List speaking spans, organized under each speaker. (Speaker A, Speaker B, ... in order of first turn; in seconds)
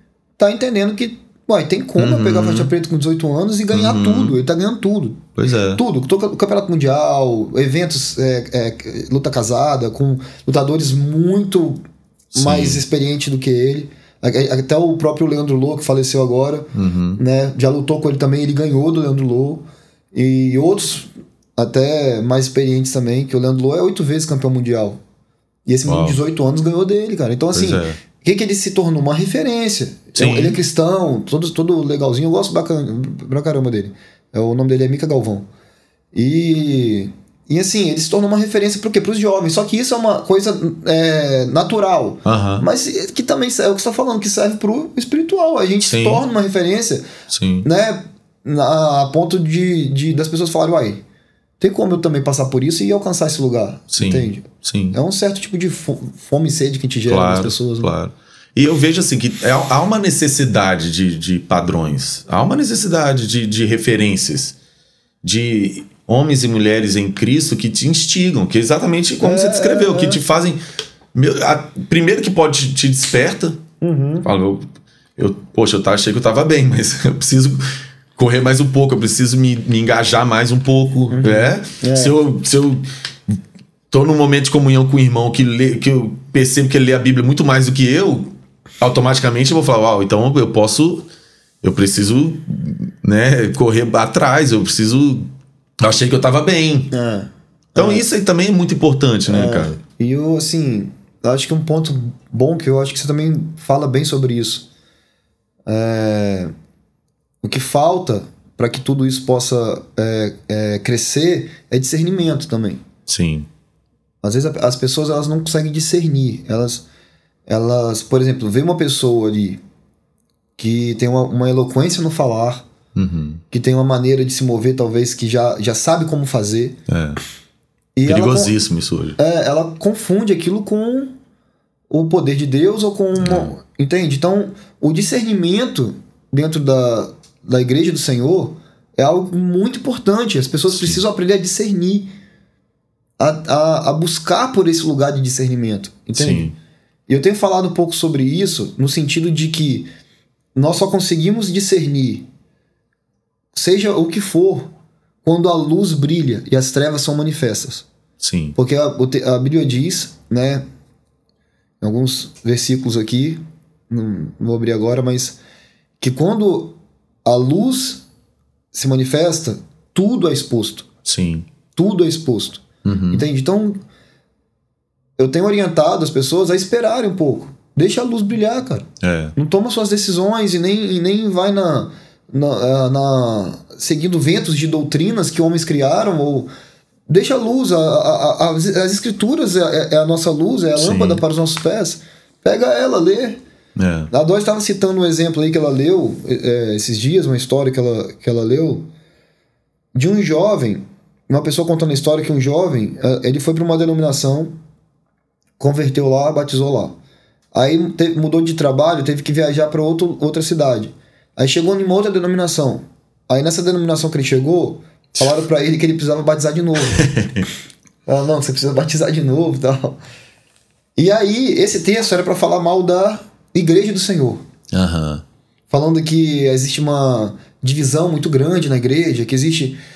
Speaker A: 0.4-11.8, 12.3-25.0, 25.6-35.4, 36.1-47.1, 47.6-51.0, 51.6-57.9, 69.2-70.2, 73.8-74.3, 81.1-82.2, 96.9-98.0, 99.3-104.7, 105.7-106.5, 107.4-112.8, 114.2-116.8, 117.5-119.6, 120.6-122.6, 123.5-126.8, 128.0-128.5, 129.2-131.1, 131.9-142.1, 143.2-146.5, 147.1-149.9, 150.5-152.3, 153.5-154.7, 155.2-157.8, 158.6-160.6, 161.8-165.4, 166.0-168.0, 168.7-170.9, 171.8-173.8, 175.2-186.5, 187.1-193.4, 194.1-198.9, 199.9-204.5, 205.6-206.9, 207.5-217.1, 218.1-220.0, 221.0-224.4, 225.7-229.8
Speaker B: 2.0-2.7, 3.7-4.4, 5.4-5.8, 12.3-12.8, 16.7-17.2, 25.9-26.2, 27.5-28.0, 30.1-30.6, 42.2-42.6, 45.8-46.2, 47.3-47.7, 53.9-55.0, 57.1-64.5, 65.2-70.6, 71.1-73.6, 74.2-74.6, 75.2-77.6, 78.2-83.4, 83.9-91.1, 91.6-95.3, 95.8-96.9, 97.8-99.8, 113.1-113.5, 122.9-123.4, 126.9-127.2, 128.0-129.2, 133.2-133.5, 140.7-141.0, 146.1-146.5, 158.2-158.6, 171.0-171.4, 172.8-173.2, 179.0-179.3, 190.8-191.2, 193.8-194.1, 216.9-217.5, 224.7-225.2